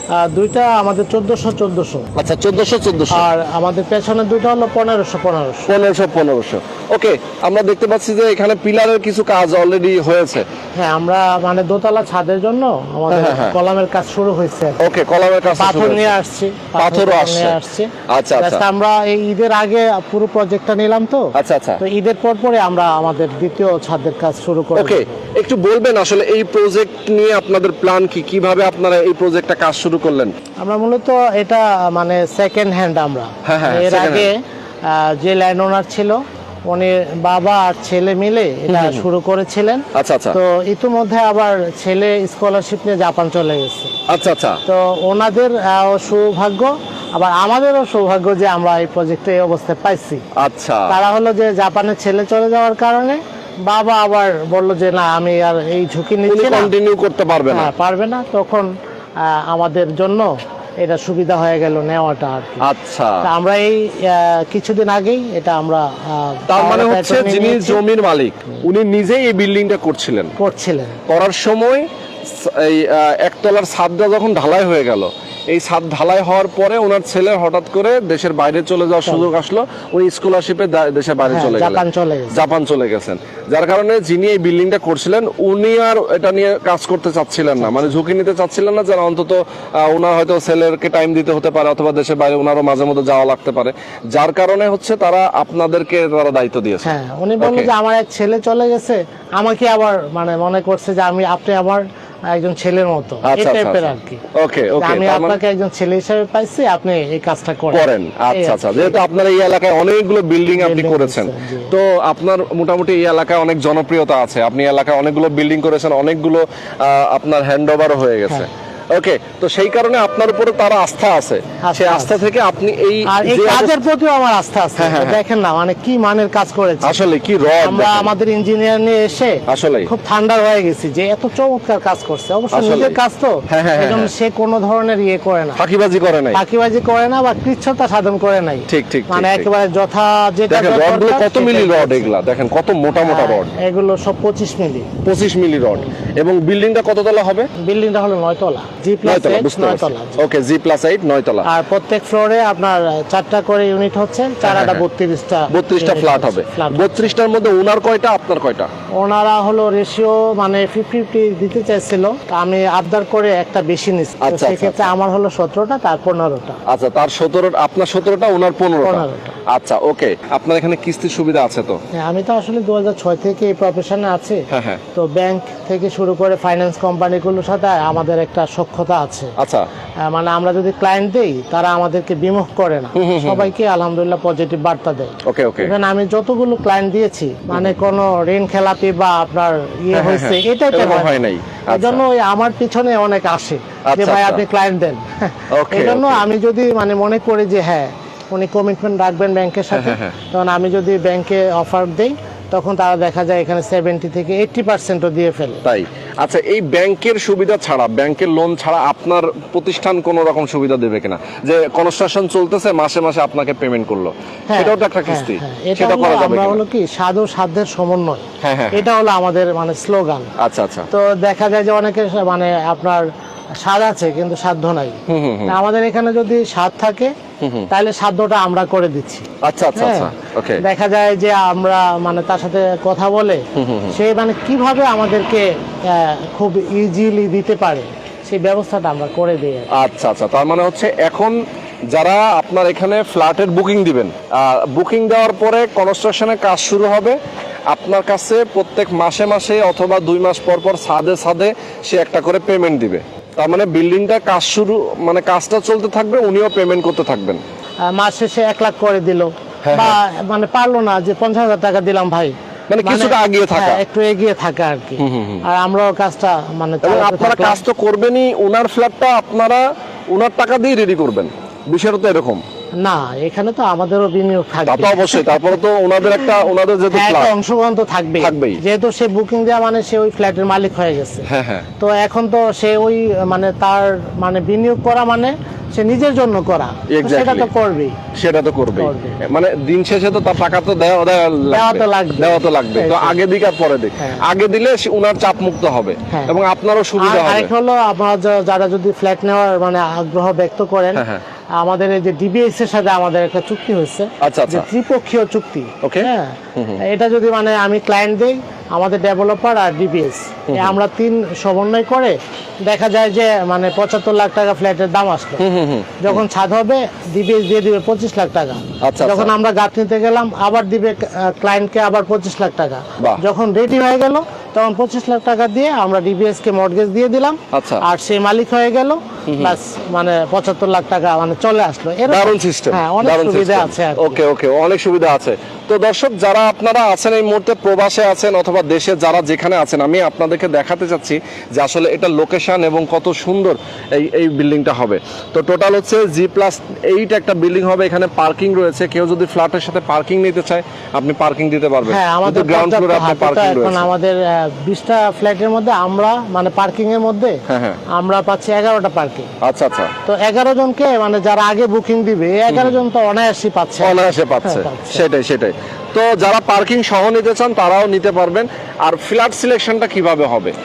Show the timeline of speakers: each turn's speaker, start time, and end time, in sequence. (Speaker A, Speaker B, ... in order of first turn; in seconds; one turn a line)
Speaker A: 0.2-2.1
Speaker B: 2.1-3.2
Speaker A: 3.1-5.7
Speaker B: 5.7-10.5
Speaker A: 10.8-14.9
Speaker B: 13.1-13.6
Speaker B: 14.8-16.1
Speaker A: 15.6-25.2
Speaker B: 16.8-17.6
Speaker B: 18.1-18.6
Speaker B: 21.4-21.8
Speaker B: 24.8-30.3
Speaker A: 30.6-44.1
Speaker B: 33.5-34.3
Speaker B: 38.7-39.0
Speaker B: 39.9-40.4
Speaker B: 44.1-44.6
Speaker A: 44.6-50.3
Speaker B: 50.4-51.0
Speaker A: 50.9-56.7
Speaker B: 56.3-57.7
Speaker A: 57.5-62.6
Speaker B: 62.6-63.3
Speaker A: 63.2-67.8
Speaker B: 66.5-70.3
Speaker A: 70.4-71.0
Speaker B: 71.1-97.7
Speaker A: 81.2-82.4
Speaker A: 96.8-104.2
Speaker B: 103.2-105.4
Speaker A: 104.8-109.0
Speaker B: 107.7-123.8
Speaker A: 110.5-111.7
Speaker A: 121.7-122.2
Speaker A: 123.1-127.0
Speaker B: 124.8-125.2
Speaker B: 126.8-128.1
Speaker A: 127.6-135.6
Speaker B: 129.5-129.9
Speaker B: 132.5-133.0
Speaker B: 133.5-134.1
Speaker B: 135.6-136.4
Speaker A: 136.3-142.1
Speaker B: 138.7-139.5
Speaker B: 140.5-143.5
Speaker A: 142.9-145.0
Speaker B: 145.0-147.5
Speaker A: 147.6-150.2
Speaker B: 149.0-151.5
Speaker A: 151.4-157.2
Speaker B: 154.4-154.8
Speaker B: 155.5-158.7
Speaker A: 159.0-166.6
Speaker B: 164.2-164.9
Speaker B: 166.7-171.8
Speaker A: 168.8-169.4
Speaker A: 171.9-179.3
Speaker B: 174.5-174.8
Speaker B: 179.4-179.7
Speaker A: 180.0-205.6
Speaker B: 182.9-183.5
Speaker B: 185.2-185.7
Speaker B: 189.9-192.0
Speaker B: 193.9-194.4
Speaker B: 195.5-196.2
Speaker B: 199.7-200.2
Speaker B: 205.6-216.6
Speaker A: 214.5-220.3
Speaker B: 218.4-218.8
Speaker B: 220.4-220.9
Speaker A: 220.9-227.1
Speaker B: 225.1-225.6
Speaker B: 227.4-227.7
Speaker A: 227.7-239.7
Speaker B: 229.4-230.6
Speaker B: 233.6-234.0
Speaker B: 239.7-241.4
Speaker B: 241.9-257.4
Speaker A: 257.9-267.6
Speaker B: 259.6-260.0
Speaker B: 262.7-263.8
Speaker B: 265.0-265.4
Speaker B: 266.8-272.4
Speaker A: 272.8-275.4
Speaker B: 274.7-277.3
Speaker A: 276.9-288.0
Speaker B: 278.2-278.6
Speaker B: 281.2-281.7
Speaker B: 286.9-287.5
Speaker B: 288.1-297.5
Speaker A: 288.8-289.2
Speaker A: 291.5-293.2
Speaker A: 294.0-294.2
Speaker A: 296.1-296.4
Speaker A: 297.0-301.1
Speaker B: 300.9-301.2
Speaker A: 301.6-315.5
Speaker B: 304.2-304.7
Speaker B: 305.8-306.8
Speaker B: 310.5-310.7
Speaker B: 315.4-316.2
Speaker A: 316.0-334.2
Speaker B: 318.8-319.3
Speaker B: 327.5-327.8
Speaker B: 329.3-329.6
Speaker B: 332.1-353.9
Speaker A: 351.9-359.3
Speaker B: 357.5-357.8
Speaker B: 359.4-359.9
Speaker A: 360.1-365.0
Speaker B: 362.5-362.8
Speaker B: 363.8-370.6